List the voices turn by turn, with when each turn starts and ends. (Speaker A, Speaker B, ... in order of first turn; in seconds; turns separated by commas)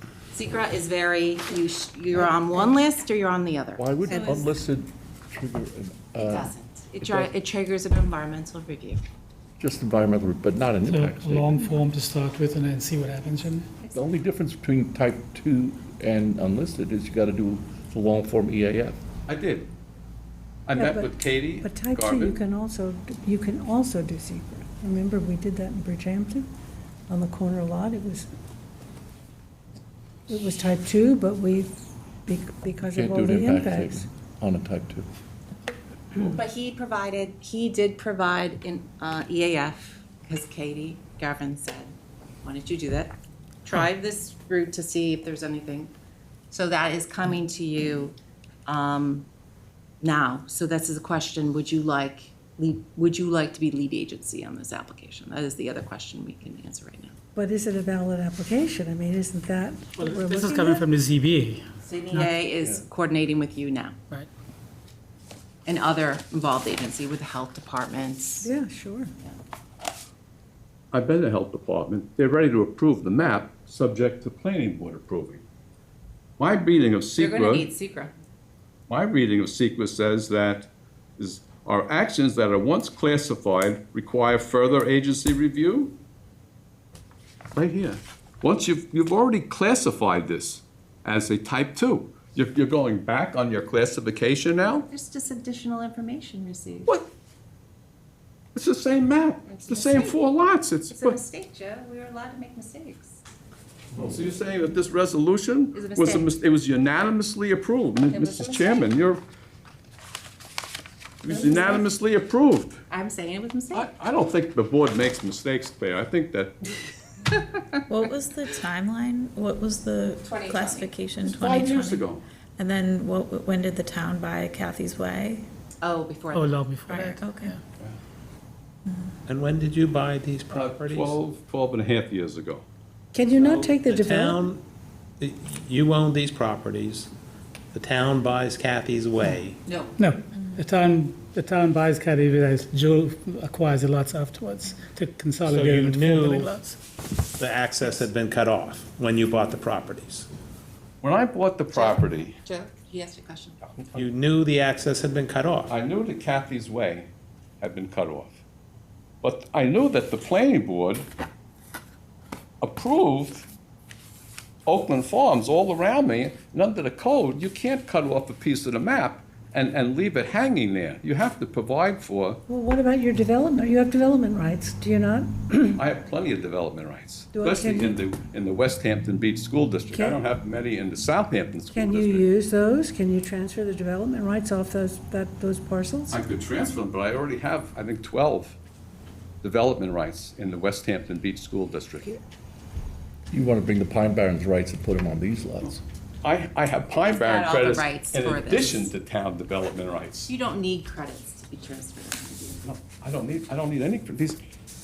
Speaker A: 0.3-4.5, Speaker B: 3.8-7.3, Speaker C: 4.1-4.4, Speaker A: 6.2-9.0, Speaker B: 9.6-11.7, Speaker D: 10.8-13.7, Speaker A: 13.8-14.0, Speaker B: 13.9-19.0, Speaker E: 19.2-19.7, Speaker E: 20.6-22.4, Speaker F: 20.8-26.5, Speaker F: 27.1-28.3, Speaker F: 30.3-34.0, Speaker B: 32.9-35.1, Speaker A: 36.1-45.9, Speaker A: 46.5-48.1, Speaker A: 48.6-49.2, Speaker A: 50.0-57.1, Speaker F: 57.3-60.9, Speaker D: 60.0-62.3, Speaker A: 61.8-64.0, Speaker B: 62.6-62.8, Speaker A: 65.7-68.5, Speaker F: 68.4-69.1, Speaker E: 70.9-75.4, Speaker E: 76.4-77.7, Speaker A: 77.2-78.1, Speaker E: 78.9-86.0, Speaker E: 87.5-94.8, Speaker A: 94.8-96.9, Speaker E: 98.5-101.2, Speaker A: 99.5-100.2, Speaker A: 100.9-103.2, Speaker E: 104.0-109.2, Speaker A: 105.7-106.3, Speaker A: 108.1-109.0, Speaker E: 111.2-112.8, Speaker A: 111.3-111.9, Speaker A: 112.9-113.9, Speaker E: 113.7-116.7, Speaker A: 117.3-117.6, Speaker C: 117.9-125.5, Speaker A: 120.2-120.9, Speaker E: 121.2-122.2, Speaker A: 125.8-126.6, Speaker D: 126.3-127.6, Speaker C: 126.9-127.5, Speaker C: 128.8-129.1, Speaker G: 129.3-131.2, Speaker E: 130.5-132.6, Speaker F: 133.1-134.4, Speaker G: 133.8-134.6, Speaker G: 135.2-137.1, Speaker G: 137.7-139.6, Speaker A: 139.7-139.9, Speaker D: 140.0-146.8, Speaker C: 140.3-140.6, Speaker G: 145.5-146.5, Speaker G: 147.4-150.3, Speaker E: 151.0-152.4, Speaker A: 151.7-153.6, Speaker G: 153.9-155.7, Speaker E: 155.7-158.4, Speaker E: 159.2-161.1, Speaker E: 162.6-163.5, Speaker E: 164.7-172.4, Speaker F: 172.5-175.8, Speaker E: 175.7-182.3, Speaker F: 177.3-178.0, Speaker F: 179.9-180.2, Speaker F: 181.7-186.2, Speaker E: 186.1-188.6, Speaker E: 189.4-192.1, Speaker B: 193.3-195.8, Speaker E: 195.6-200.3, Speaker A: 197.1-198.9, Speaker A: 200.3-202.6, Speaker E: 202.6-204.4